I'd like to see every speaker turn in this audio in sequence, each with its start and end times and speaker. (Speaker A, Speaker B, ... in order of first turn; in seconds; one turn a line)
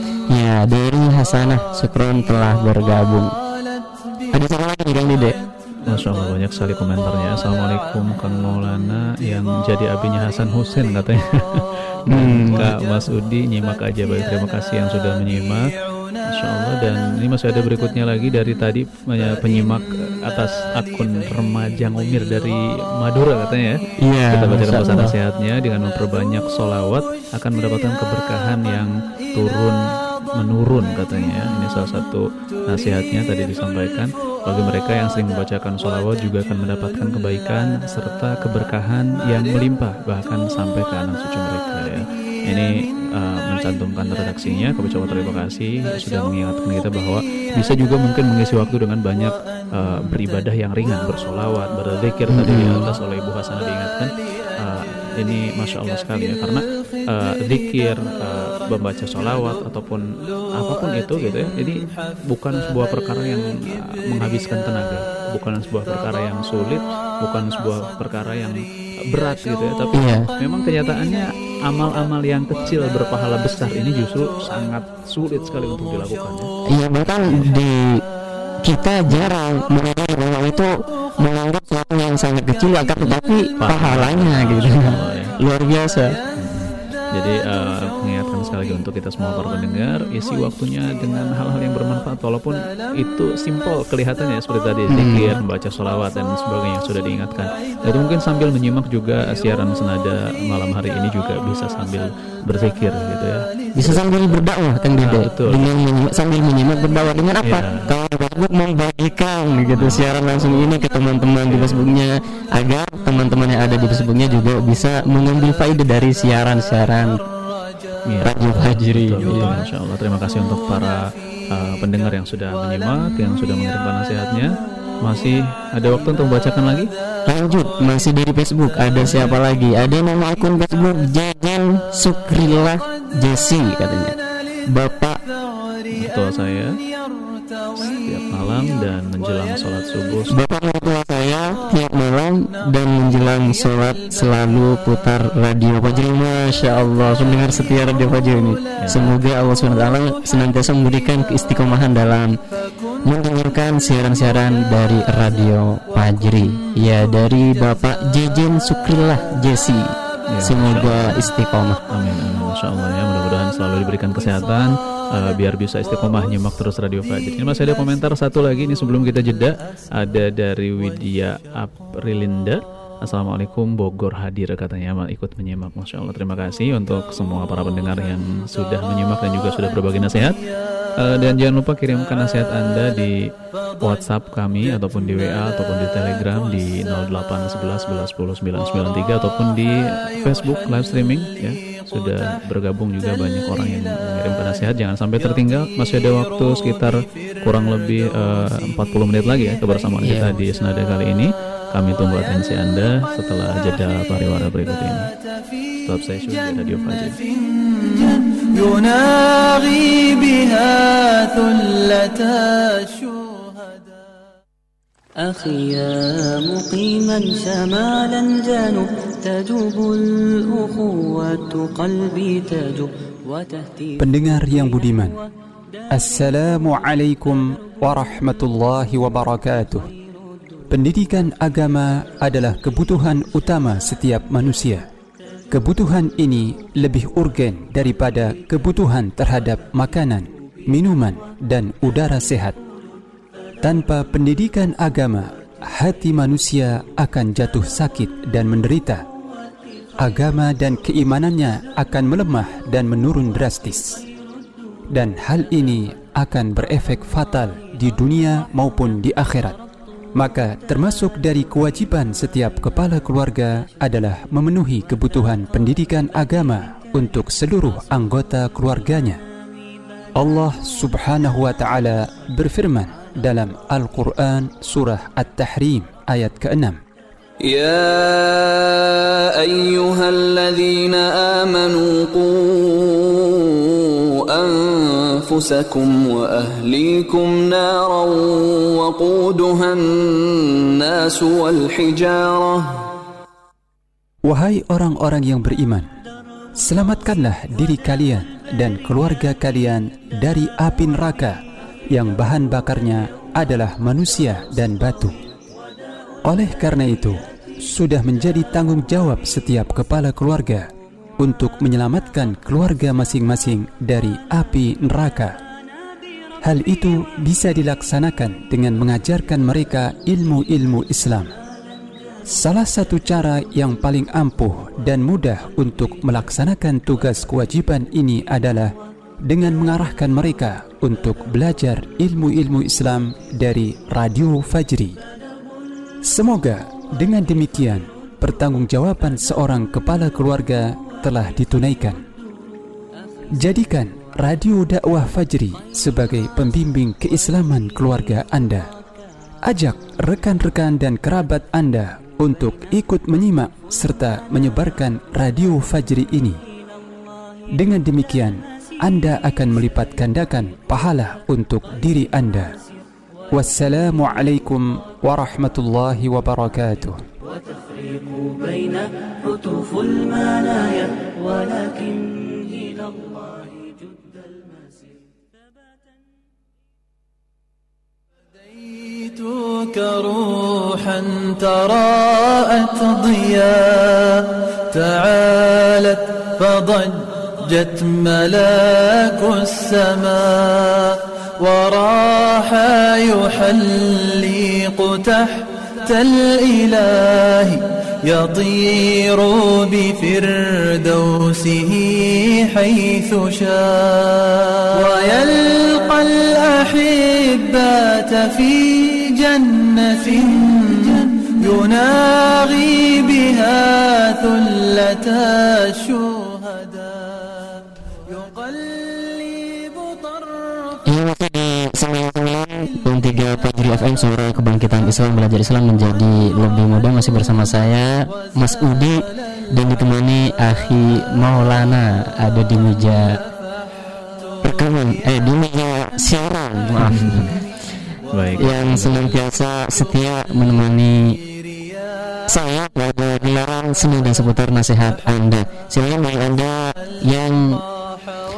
Speaker A: 0.3-3.3
Speaker A: 4.3-5.3
Speaker B: 5.9-15.6
Speaker A: 12.1-12.7
Speaker B: 16.3-23.8
Speaker A: 24.0-25.1
Speaker B: 24.3-29.8
Speaker B: 30.4-60.1
Speaker A: 52.3-52.9
Speaker B: 60.6-68.6
Speaker B: 69.1-76.5
Speaker A: 69.9-70.2
Speaker A: 76.7-78.0
Speaker A: 78.6-86.1
Speaker B: 83.0-85.3
Speaker B: 86.4-104.4
Speaker A: 94.9-95.3
Speaker A: 103.8-117.1
Speaker B: 105.0-105.6
Speaker B: 107.4-107.9
Speaker B: 109.7-110.7
Speaker B: 111.5-111.9
Speaker B: 118.1-121.0
Speaker A: 118.2-119.6
Speaker B: 121.5-124.5
Speaker B: 125.0-126.9
Speaker A: 127.3-134.2
Speaker B: 129.0-129.3
Speaker A: 134.7-135.2
Speaker B: 136.0-136.7
Speaker B: 137.8-140.3
Speaker A: 140.3-152.3
Speaker B: 148.8-149.1
Speaker A: 153.0-159.9
Speaker B: 160.3-161.3
Speaker A: 160.4-161.8
Speaker B: 161.9-180.3
Speaker B: 181.0-183.1
Speaker B: 183.8-205.1
Speaker A: 200.0-200.3
Speaker B: 205.8-207.2
Speaker C: 207.7-213.3
Speaker D: 215.2-224.1
Speaker E: 224.0-225.1
Speaker E: 225.9-229.9
Speaker E: 230.7-234.8
Speaker E: 235.5-242.6
Speaker E: 243.6-249.0
Speaker E: 250.0-254.0
Speaker E: 254.9-259.6
Speaker E: 260.1-269.2
Speaker E: 270.2-276.8
Speaker F: 277.4-292.9
Speaker E: 294.2-295.9
Speaker E: 296.6-301.4
Speaker E: 301.9-305.1
Speaker E: 306.2-310.7
Speaker E: 311.2-315.3
Speaker E: 316.4-321.3
Speaker E: 322.3-328.7
Speaker E: 329.2-334.9
Speaker E: 336.1-342.0
Speaker E: 343.4-348.6
Speaker E: 349.5-356.4
Speaker E: 357.5-362.5
Speaker E: 363.3-367.0
Speaker D: 368.1-372.8
Speaker C: 379.1-416.7
Speaker A: 420.9-433.2
Speaker A: 434.4-437.4
Speaker B: 436.8-437.3
Speaker B: 438.1-439.1
Speaker A: 438.4-441.2
Speaker A: 442.3-447.6